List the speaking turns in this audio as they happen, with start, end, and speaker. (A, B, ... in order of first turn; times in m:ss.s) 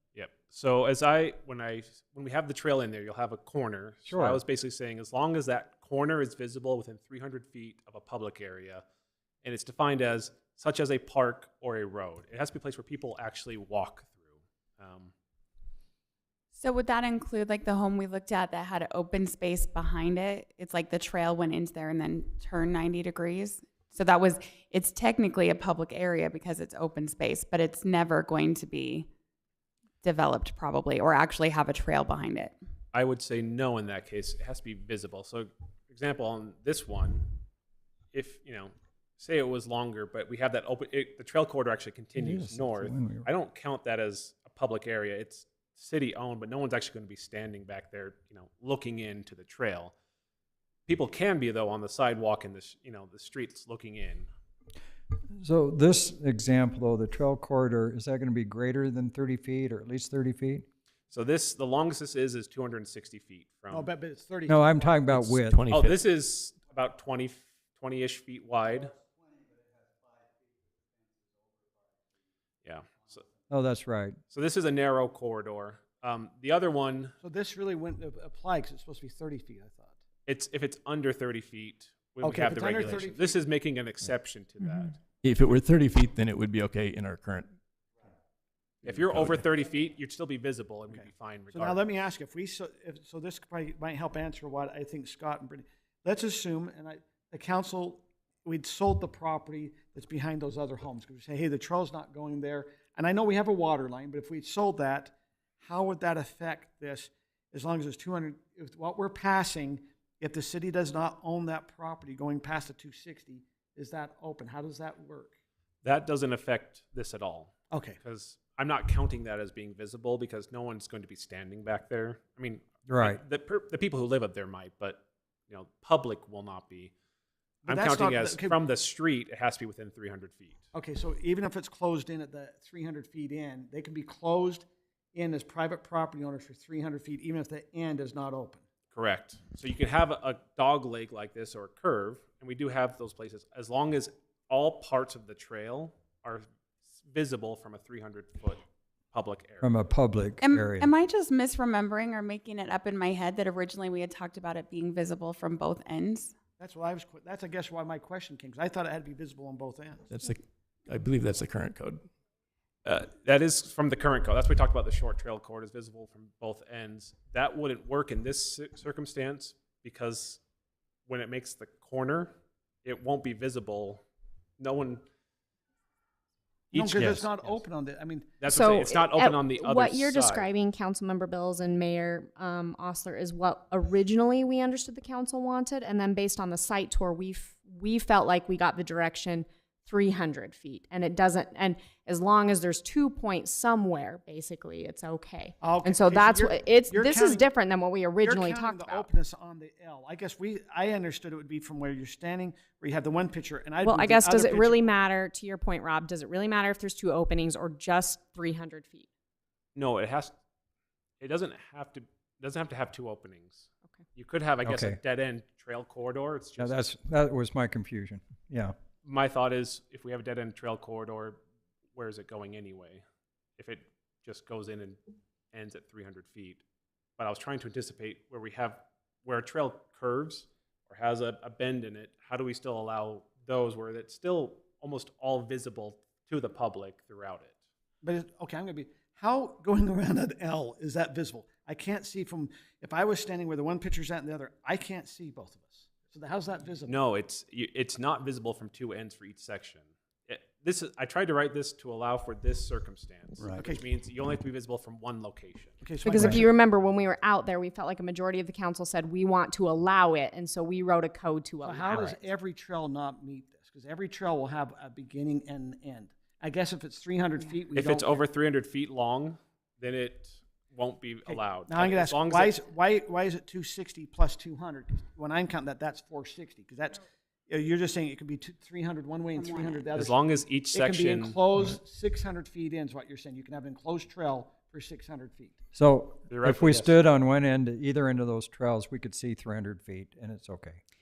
0:00.2-0:08.8 A
0:04.1-0:04.4 B
0:09.4-0:14.2 A
0:14.8-0:15.1 A
0:16.6-0:29.1 C
0:30.0-0:32.6 C
0:32.9-0:37.4 A
0:38.1-0:49.9 A
0:42.2-0:43.3 B
0:50.9-0:54.3 A
0:55.4-1:00.7 B
1:01.1-1:03.9 A
1:03.7-1:04.9 D
1:04.5-1:05.6 B
1:05.2-1:06.0 E
1:05.7-1:08.9 A
1:12.6-1:13.2 A
1:13.5-1:14.2 B
1:14.3-1:17.2 A
1:17.2-1:20.0 D
1:20.3-1:25.0 A
1:22.2-1:23.4 D
1:25.2-1:27.5 E
1:28.8-1:31.8 A
1:30.9-1:55.3 D
1:55.8-2:06.9 A
1:57.7-1:58.0 D
2:02.9-2:03.2 B
2:07.6-2:08.6 D
2:07.7-2:10.6 A
2:10.7-2:18.6 D
2:18.9-2:26.4 A
2:27.0-2:29.8 A
2:29.6-2:30.9 B
2:30.4-2:36.3 C
2:36.6-2:40.1 D
2:40.1-2:42.0 E
2:42.8-2:50.4 A
2:51.1-2:52.3 A
2:52.8-2:54.0 A
2:54.6-2:55.0 A
2:56.7-2:57.6 A
2:56.7-2:58.3 D
2:57.0-2:57.2 B
2:58.4-3:00.4 A
2:58.4-3:19.1 F
3:15.6-3:17.5 D
3:18.2-3:24.9 D
3:23.8-3:29.1 F
3:29.8-3:30.3 A
3:31.2-3:36.9 A
3:34.6-3:35.0 B
3:36.6-3:38.8 B
3:39.0-3:41.4 A
3:42.0-3:43.0 A
3:43.6-3:45.0 A
3:45.5-3:46.6 A
3:47.2-3:57.6 A
3:58.0-4:07.0 D
4:06.9-4:15.8 A
4:13.5-4:13.8 D
4:15.8-4:16.5 D
4:16.0-4:22.2 F
4:16.1-4:16.4 B
4:21.6-4:28.2 D
4:27.7-4:32.6 A
4:31.3-4:40.2 D
4:39.3-4:39.9 C
4:39.9-4:41.4 A
4:40.7-4:45.6 D
4:45.7-4:50.8 B
4:46.3-4:47.0 A